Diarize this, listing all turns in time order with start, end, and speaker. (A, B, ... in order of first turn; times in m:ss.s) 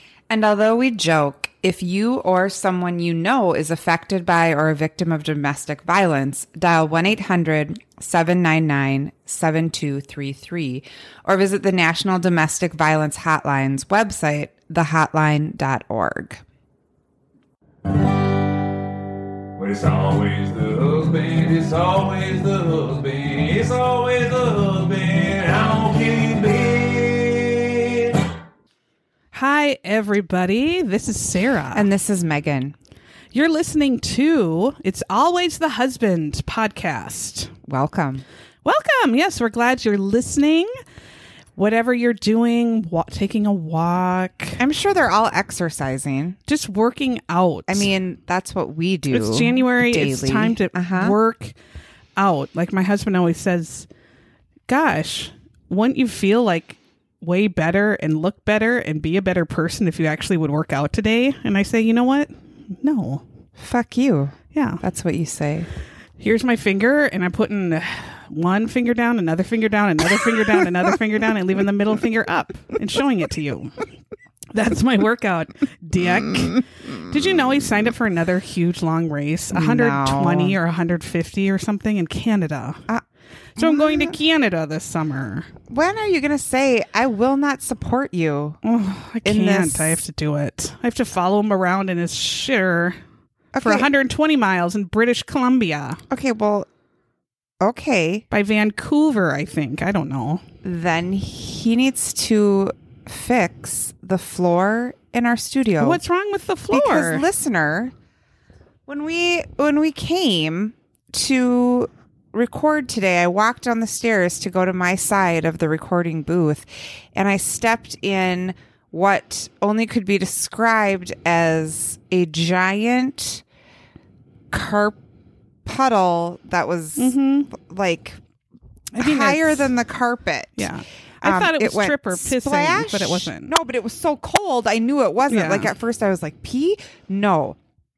0:00.3-0:16.4 A
0:19.6-0:28.2 B
0:29.3-0:31.9 C
0:31.7-0:32.7 A
0:33.3-0:37.5 C
0:37.7-0:38.2 A
0:38.6-0:40.7 C
0:41.6-0:44.6 C
0:44.6-0:46.4 A
0:46.5-0:47.9 C
0:47.7-0:51.2 A
0:49.1-0:51.6 C
0:52.2-0:53.9 C
0:54.7-1:03.2 C
1:03.6-1:05.7 A
1:04.5-1:04.8 C
1:06.2-1:13.8 C
1:14.5-1:22.9 C
1:19.5-1:20.6 A
1:23.6-1:24.2 A
1:23.6-1:25.5 C
1:25.7-1:28.6 A
1:28.6-1:33.0 C
1:29.2-1:30.0 A
1:33.5-1:33.9 A
1:33.6-1:36.0 C
1:36.1-1:36.7 A
1:37.6-1:38.2 A
1:38.3-1:40.4 C
1:40.6-1:46.0 A
1:45.8-1:47.2 C
1:46.7-1:47.9 A
1:48.9-2:03.4 A
2:04.5-2:05.0 A
2:05.6-2:08.2 A
2:07.0-2:07.5 C
2:08.9-2:10.7 A
2:09.0-2:09.7 C
2:10.6-2:13.5 C
2:11.2-2:17.6 A
2:15.3-2:15.7 C